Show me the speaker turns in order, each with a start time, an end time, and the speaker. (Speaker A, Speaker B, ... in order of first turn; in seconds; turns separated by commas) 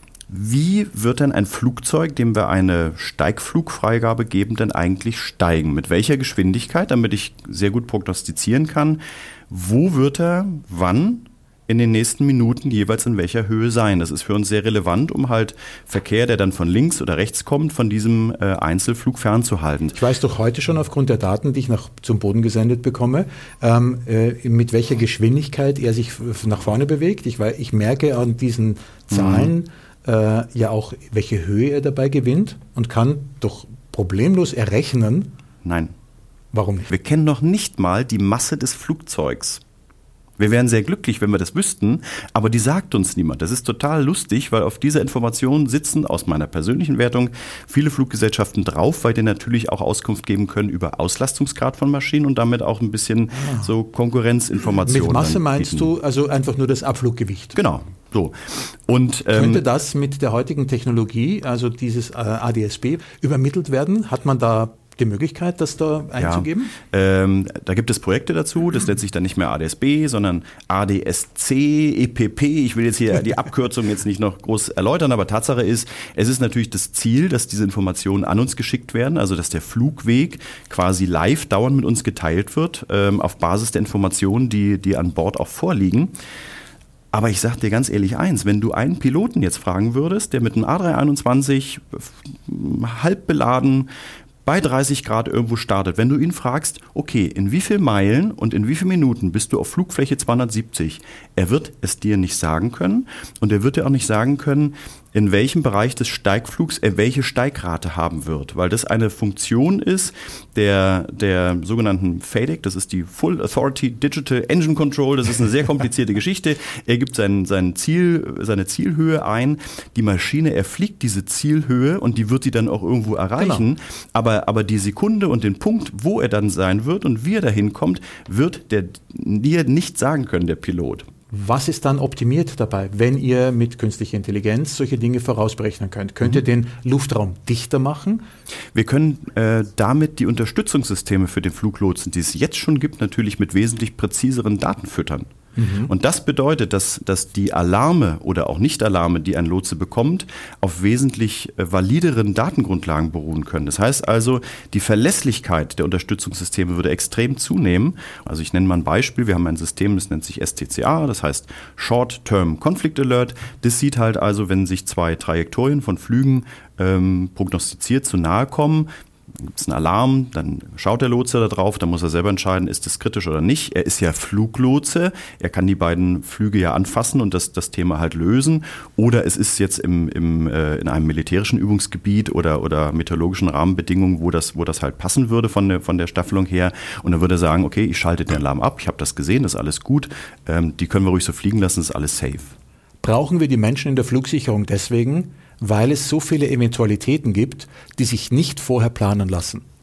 Speaker A: 0.3-20.0, Speaker B: 19.9-35.3, Speaker A: 29.1-29.5, Speaker A: 35.6-35.9, Speaker B: 36.5-36.9, Speaker A: 36.9-39.6, Speaker A: 40.4-55.9, Speaker B: 53.3-53.7, Speaker B: 54.9-57.5, Speaker A: 57.5-59.6, Speaker B: 59.3-66.7, Speaker A: 66.2-86.1, Speaker A: 87.1-93.9, Speaker A: 94.4-131.1, Speaker B: 123.4-123.6, Speaker B: 131.3-138.2, Speaker A: 138.7-145.3, Speaker B: 145.6-145.9, Speaker A: 145.9-192.5, Speaker B: 193.0-199.6